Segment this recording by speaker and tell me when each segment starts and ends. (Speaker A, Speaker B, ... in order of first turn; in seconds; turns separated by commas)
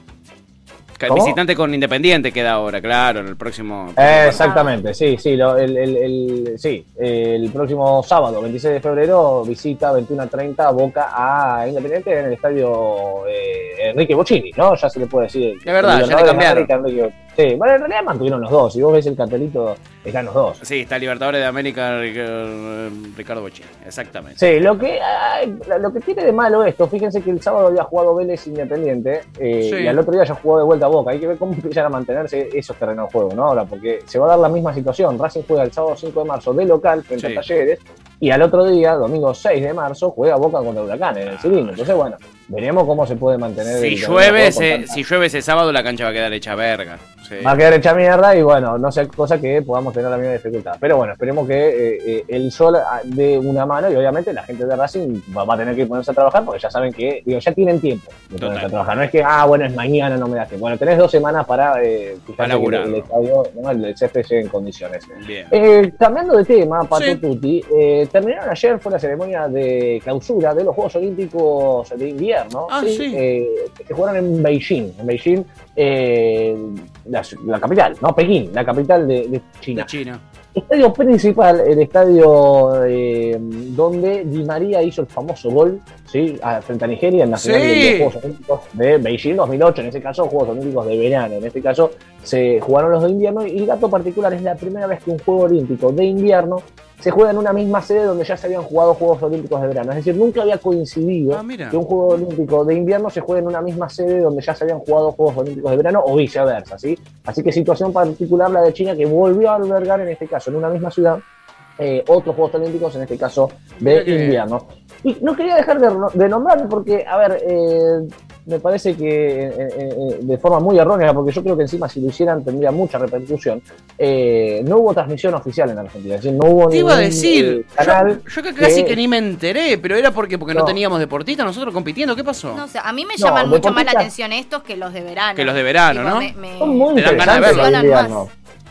Speaker A: 0.9-4.5, Speaker B: 1.1-1.4, Speaker B: 4.0-20.6, Speaker C: 4.3-4.7, Speaker A: 15.6-16.7, Speaker A: 20.6-24.4, Speaker B: 24.4-45.0, Speaker A: 29.6-30.0, Speaker A: 37.2-37.4, Speaker A: 41.3-42.0, Speaker A: 43.6-47.6, Speaker B: 47.4-79.9, Speaker A: 58.4-58.7, Speaker A: 62.4-63.1, Speaker A: 65.2-65.5, Speaker A: 66.9-67.2, Speaker A: 72.7-73.2, Speaker A: 79.7-80.2, Speaker B: 80.5-111.2, Speaker A: 87.3-88.1, Speaker A: 101.3-101.8, Speaker B: 111.8-129.0, Speaker A: 113.8-114.4, Speaker A: 126.7-132.6, Speaker B: 130.5-130.8, Speaker C: 132.5-138.3, Speaker B: 133.2-134.1, Speaker A: 135.3-136.3, Speaker B: 136.6-138.3, Speaker A: 136.9-137.7